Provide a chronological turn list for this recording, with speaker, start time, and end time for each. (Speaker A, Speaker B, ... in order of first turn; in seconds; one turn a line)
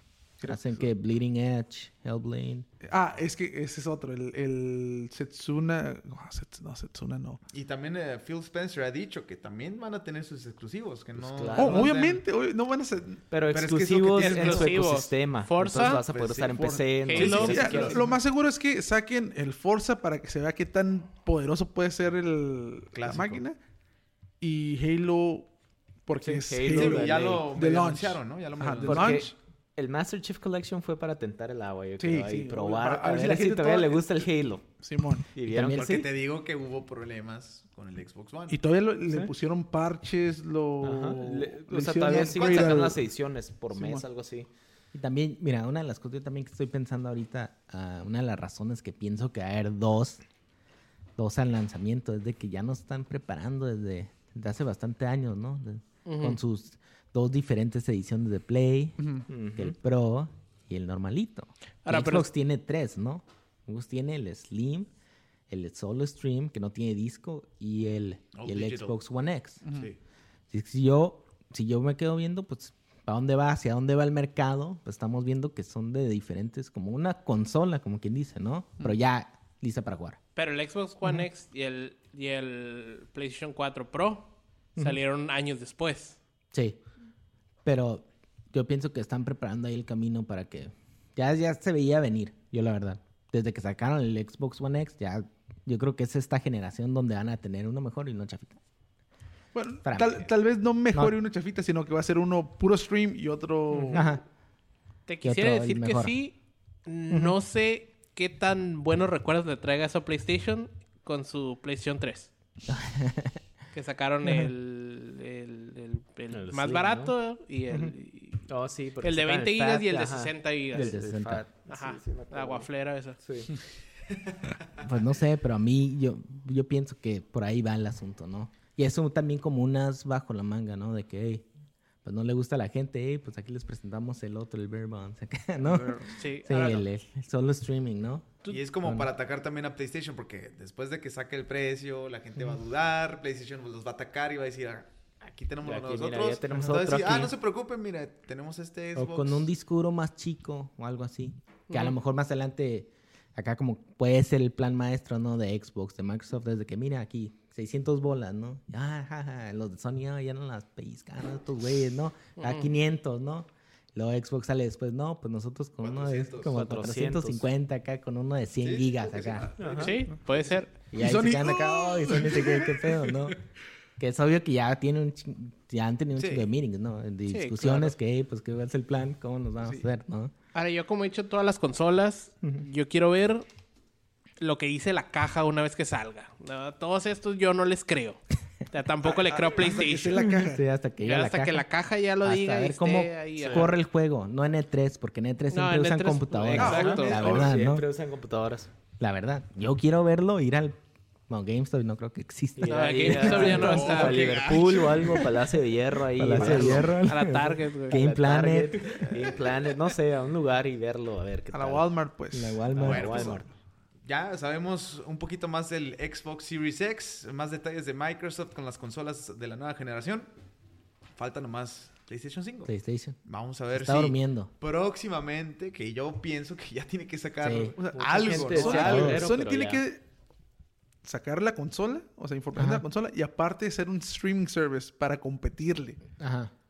Speaker A: 0.4-0.9
Speaker B: 0.4-2.7
Speaker A: 2.9-7.4
Speaker C: 7.5-12.2
Speaker D: 11.2-12.0
Speaker A: 11.6-13.2
Speaker D: 13.3-18.1
Speaker C: 13.5-14.9
Speaker E: 14.2-16.0
Speaker C: 15.8-18.0
Speaker A: 16.6-23.6
Speaker E: 17.1-18.0
Speaker C: 22.9-23.4
Speaker A: 24.4-25.5
Speaker A: 26.1-29.4
Speaker D: 26.2-27.5
Speaker C: 26.7-29.2
Speaker D: 28.8-34.8
Speaker A: 32.0-34.0
Speaker A: 34.8-35.3
Speaker D: 35.3-35.9
Speaker B: 35.5-36.1
Speaker C: 35.7-38.6
Speaker A: 38.5-43.0
Speaker D: 39.1-39.3
Speaker D: 40.8-44.5
Speaker C: 42.0-43.0
Speaker A: 43.7-44.0
Speaker B: 44.9-50.2
Speaker B: 51.2-64.9
Speaker E: 56.0-56.4
Speaker A: 59.0-59.2
Speaker D: 59.3-59.7
Speaker E: 61.9-62.3
Speaker B: 65.5-69.6
Speaker C: 68.3-69.0
Speaker B: 70.5-80.2
Speaker E: 80.4-86.2
Speaker B: 86.5-86.8
Speaker B: 87.7-98.6
Speaker A: 99.5-104.2
Speaker B: 99.8-100.3
Speaker E: 103.7-104.0
Speaker B: 103.9-104.2
Speaker E: 105.1-112.3
Speaker B: 105.2-106.2
Speaker B: 107.1-107.4
Speaker B: 112.7-113.4
Speaker E: 113.7-118.5
Speaker B: 114.2-114.5
Speaker D: 116.3-117.2
Speaker D: 118.5-122.7
Speaker E: 119.0-121.0
Speaker B: 120.7-121.5
Speaker E: 121.7-123.2
Speaker D: 123.2-123.6
Speaker B: 124.8-131.5
Speaker B: 132.0-139.1
Speaker E: 136.1-136.9
Speaker C: 138.5-149.5
Speaker D: 145.6-147.3
Speaker B: 146.6-146.8
Speaker B: 149.0-169.5
Speaker E: 151.7-152.0
Speaker E: 162.4-162.7
Speaker C: 165.8-166.6
Speaker D: 166.4-167.4
Speaker C: 168.6-169.8
Speaker D: 169.6-170.1
Speaker A: 169.6-170.2
Speaker E: 169.8-170.7
Speaker B: 170.9-173.4
Speaker A: 171.0-173.2
Speaker B: 174.0-180.3
Speaker C: 176.2-176.5
Speaker E: 177.3-177.9
Speaker A: 179.6-179.9
Speaker E: 180.5-183.5
Speaker E: 184.4-190.3
Speaker A: 189.1-190.7
Speaker B: 190.2-191.7
Speaker E: 191.0-193.7
Speaker B: 192.2-197.8
Speaker E: 195.5-197.3
Speaker D: 196.5-198.7
Speaker A: 196.6-197.5
Speaker B: 199.0-200.8
Speaker B: 201.3-203.8
Speaker D: 202.6-207.0
Speaker E: 202.6-204.3
Speaker C: 203.3-205.4
Speaker B: 206.2-209.0
Speaker E: 206.3-208.0
Speaker D: 207.9-211.9
Speaker A: 211.5-213.3
Speaker B: 212.3-213.4
Speaker D: 212.7-213.5
Speaker C: 212.8-213.5
Speaker C: 214.1-220.3
Speaker C: 221.2-222.7
Speaker B: 222.7-223.2
Speaker C: 223.2-229.4
Speaker B: 223.7-224.5
Speaker B: 227.4-227.8
Speaker A: 227.8-230.0
Speaker D: 228.0-229.8
Speaker B: 228.8-229.3
Speaker A: 231.0-236.0
Speaker B: 232.6-232.8
Speaker B: 236.2-236.5